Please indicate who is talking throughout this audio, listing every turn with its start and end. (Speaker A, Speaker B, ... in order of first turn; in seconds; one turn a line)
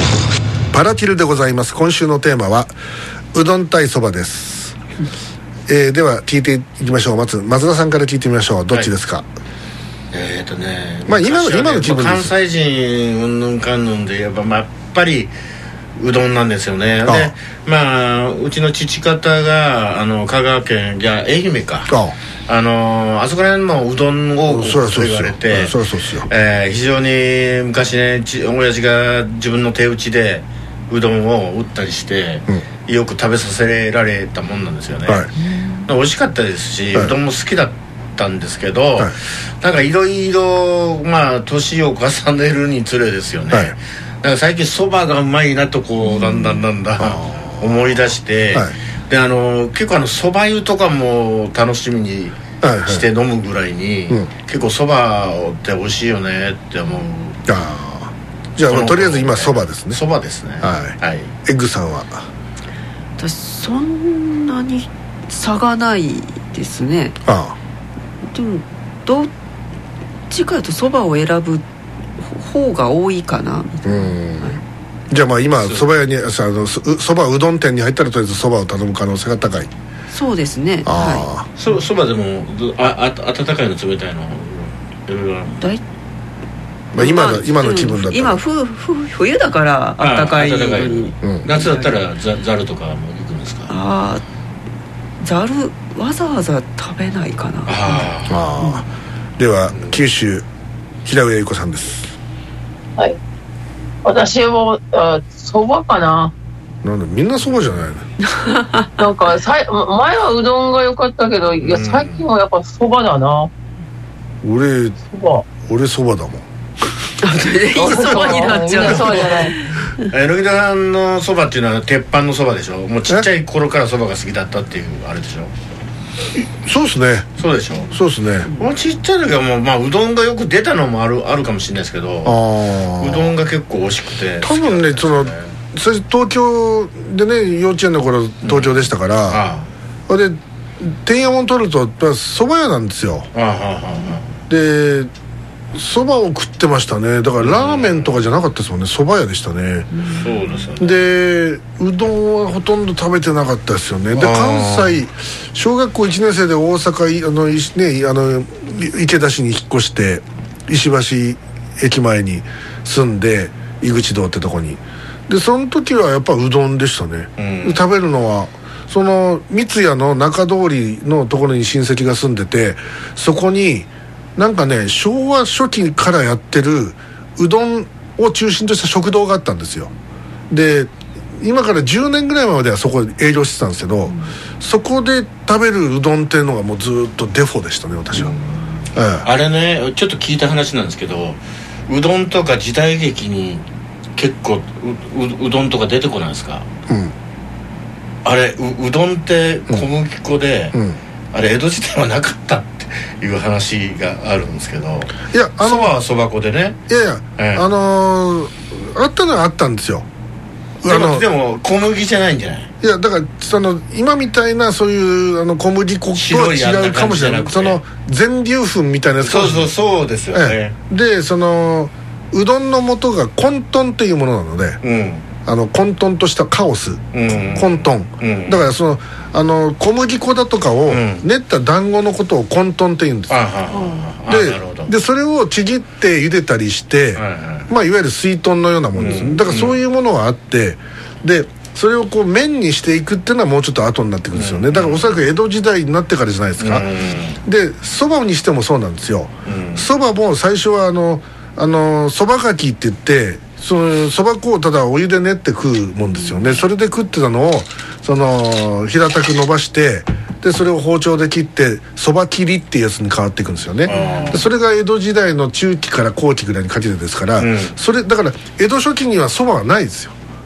Speaker A: 0.7-2.8
Speaker A: 3.3-4.8
Speaker A: 5.7-9.3
Speaker B: 10.1-15.3
Speaker A: 11.1-12.3
Speaker B: 16.0-21.9
Speaker A: 17.0-17.3
Speaker A: 21.9-22.1
Speaker B: 22.5-25.8
Speaker A: 24.5-26.3
Speaker B: 26.3-35.2
Speaker B: 35.9-57.4
Speaker A: 43.5-43.8
Speaker A: 47.0-47.8
Speaker A: 52.6-53.0
Speaker A: 57.5-60.0
Speaker B: 58.6-61.3
Speaker A: 60.6-62.2
Speaker C: 63.2-67.2
Speaker A: 67.2-67.6
Speaker C: 68.3-69.3
Speaker C: 70.3-71.6
Speaker C: 72.2-74.6
Speaker A: 73.8-74.6
Speaker A: 75.1-79.7
Speaker B: 75.6-75.9
Speaker C: 80.1-81.3
Speaker A: 80.8-81.5
Speaker B: 81.5-85.6
Speaker A: 86.9-88.4
Speaker C: 86.9-91.9
Speaker B: 90.0-93.7
Speaker A: 91.2-91.5
Speaker C: 93.7-94.2
Speaker C: 95.2-98.8
Speaker B: 97.7-98.4
Speaker A: 98.3-98.9
Speaker A: 99.4-100.5
Speaker B: 99.7-100.0
Speaker A: 101.0-102.1
Speaker D: 104.0-106.3
Speaker A: 106.8-108.0
Speaker B: 107.5-107.8
Speaker C: 108.3-108.9
Speaker D: 109.0-113.5
Speaker B: 111.6-112.2
Speaker A: 114.4-115.0
Speaker D: 115.1-115.5
Speaker A: 115.6-116.4
Speaker C: 117.2-119.6
Speaker D: 117.7-119.5
Speaker A: 117.8-119.5
Speaker B: 120.1-125.5
Speaker A: 126.4-127.3
Speaker B: 127.4-128.0
Speaker A: 127.9-128.5
Speaker B: 128.6-132.4
Speaker A: 132.2-133.3
Speaker B: 133.0-135.5
Speaker A: 134.4-139.4
Speaker B: 138.4-139.7
Speaker A: 140.1-143.3
Speaker B: 143.3-144.3
Speaker A: 144.5-145.1
Speaker A: 145.7-150.0
Speaker B: 147.4-148.3
Speaker B: 150.1-151.0
Speaker A: 150.8-179.9
Speaker B: 154.1-155.0
Speaker B: 167.4-167.8
Speaker A: 180.5-188.3
Speaker B: 188.1-188.5
Speaker A: 188.9-189.3
Speaker B: 189.2-193.6
Speaker B: 194.2-196.7
Speaker A: 196.9-197.1
Speaker B: 198.2-200.8
Speaker A: 200.7-201.0
Speaker B: 201.3-206.8
Speaker A: 205.3-206.0
Speaker A: 206.9-210.1
Speaker B: 207.4-207.6
Speaker A: 210.8-211.2
Speaker B: 210.8-212.7
Speaker A: 212.8-219.7
Speaker B: 216.1-217.8
Speaker B: 219.2-220.7
Speaker A: 220.3-224.8
Speaker B: 224.8-225.3
Speaker A: 225.4-233.4
Speaker B: 227.1-228.7
Speaker B: 230.9-231.2
Speaker B: 233.3-234.9
Speaker A: 234.2-246.9
Speaker B: 237.1-237.7
Speaker B: 238.9-239.8
Speaker B: 244.3-245.2
Speaker B: 246.6-247.4
Speaker A: 247.4-270.1
Speaker B: 249.4-249.9
Speaker C: 256.1-256.4
Speaker B: 263.9-264.5
Speaker C: 263.9-264.3
Speaker B: 267.4-267.8